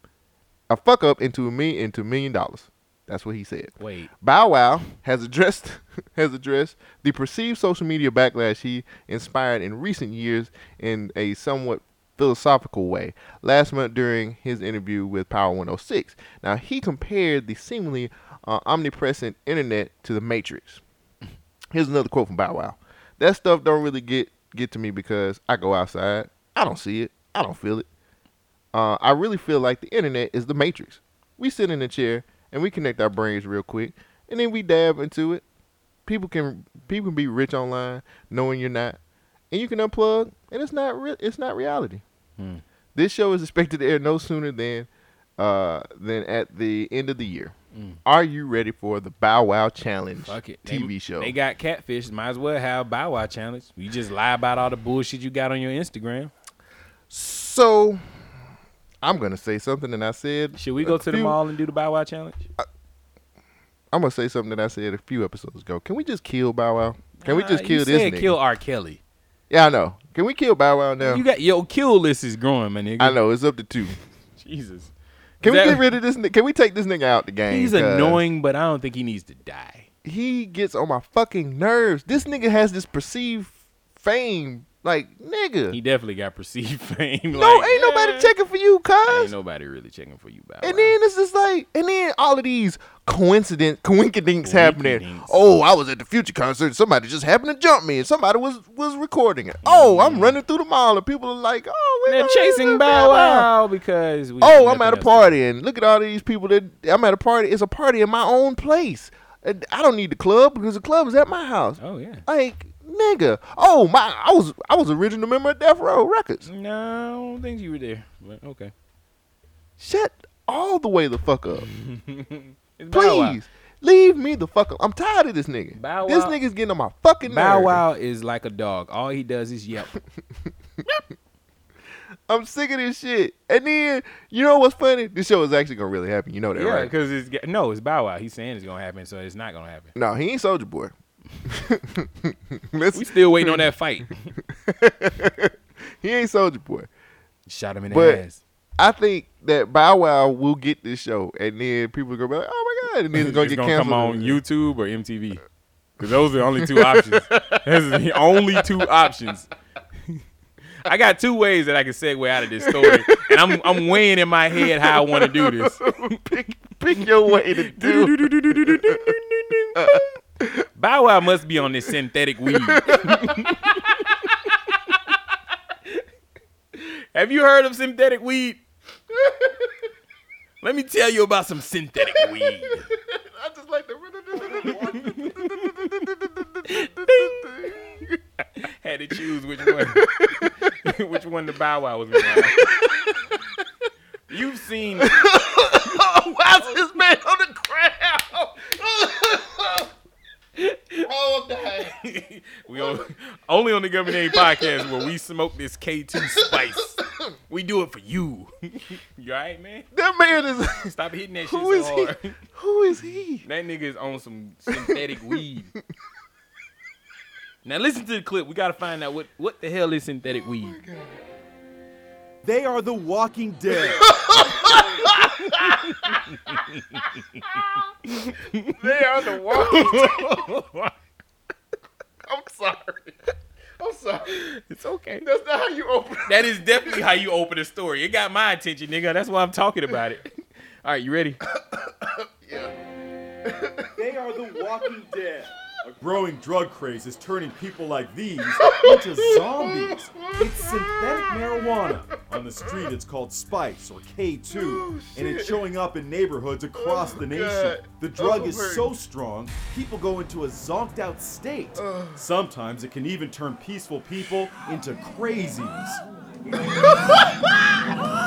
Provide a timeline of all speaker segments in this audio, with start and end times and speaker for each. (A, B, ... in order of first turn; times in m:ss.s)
0:00.7-0:20.8 A
0:03.8-0:04.1 B
0:21.7-0:27.9 A
0:28.7-0:35.4 A
0:36.1-0:39.0 A
0:39.5-0:42.0 A
0:42.4-0:42.6 B
0:43.0-0:51.4 A
0:50.2-0:56.3 B
0:57.1-0:58.0 A
0:59.0-1:01.4 A
1:00.6-1:02.4 B
1:03.9-1:08.4 A
1:07.2-1:09.0 B
1:09.5-1:11.2 A
1:11.0-1:13.2 B
1:13.0-1:14.0 A
1:14.4-1:14.9 B
1:15.4-1:18.2 A
1:15.4-1:15.8 B
1:17.5-1:19.9 B
1:20.0-1:25.8 A
1:25.7-1:28.3 B
1:27.3-1:29.3 A
1:29.1-1:30.9 B
1:30.6-1:43.5 A
1:34.4-1:35.5 B
1:39.6-1:40.4 B
1:42.1-1:45.3 B
1:44.4-1:56.4 A
1:51.8-1:52.2 B
1:56.4-1:58.7 B
1:59.8-2:01.7 A
2:01.6-2:03.4 B
2:02.9-2:07.8 A
2:05.8-2:06.4 B
2:07.2-2:09.9 B
2:12.3-2:16.9 A
2:16.6-2:19.9 B
2:20.0-2:20.9 A
2:21.4-2:23.7 A
2:22.9-2:24.1 B
2:24.5-2:26.9 A
2:27.5-2:28.4 B
2:27.9-2:28.2 A
2:28.8-2:34.4 A
2:33.1-2:35.4 B
2:36.0-2:39.5 B
2:36.6-2:37.6 A
2:38.3-2:38.8 A
2:40.8-2:45.9 B
2:42.6-2:44.0 A
2:44.5-2:49.1 A
2:47.6-2:50.0 B
2:49.8-2:50.7 A
2:50.8-2:53.7 B
2:52.5-2:53.7 A
2:56.8-2:58.6 B
2:59.2-2:59.5 A
3:00.6-3:02.9 B
3:02.1-3:08.2 A
3:04.6-3:05.7 B
3:06.7-3:07.4 B
3:08.6-3:12.8 B
3:09.7-3:10.5 A
3:12.2-3:13.4 A
3:14.3-3:15.2 B
3:15.0-3:19.9 A
3:20.6-3:21.1 B
3:21.0-3:22.0 A
3:21.7-3:27.0 B
3:22.7-3:23.0 A
3:24.1-3:24.9 A
3:26.2-3:27.2 A
3:27.5-3:29.9 B
3:29.9-3:30.9 A
3:30.8-3:32.3 B
3:31.4-3:33.4 A
3:33.4-3:35.7 B
3:34.7-3:35.4 A
3:37.6-3:40.8 B
3:40.6-3:41.2 A
3:42.4-3:44.1 C
3:44.0-3:46.0 A
3:46.1-3:47.0 B
3:48.1-3:48.7 B
3:48.8-3:50.5 A
3:49.3-3:50.9 B
3:52.2-3:53.2 A
3:53.8-3:54.3 A
3:54.4-3:55.3 B
3:55.2-3:57.0 A
3:56.3-4:00.3 B
4:00.8-4:01.4 B
4:01.7-4:02.7 A
4:03.4-4:03.9 A
4:04.0-4:26.0 C
4:08.6-4:11.3 A
4:14.5-4:15.6 A
4:16.7-4:18.9 A
4:21.8-4:22.2 A
4:26.6-4:27.4 A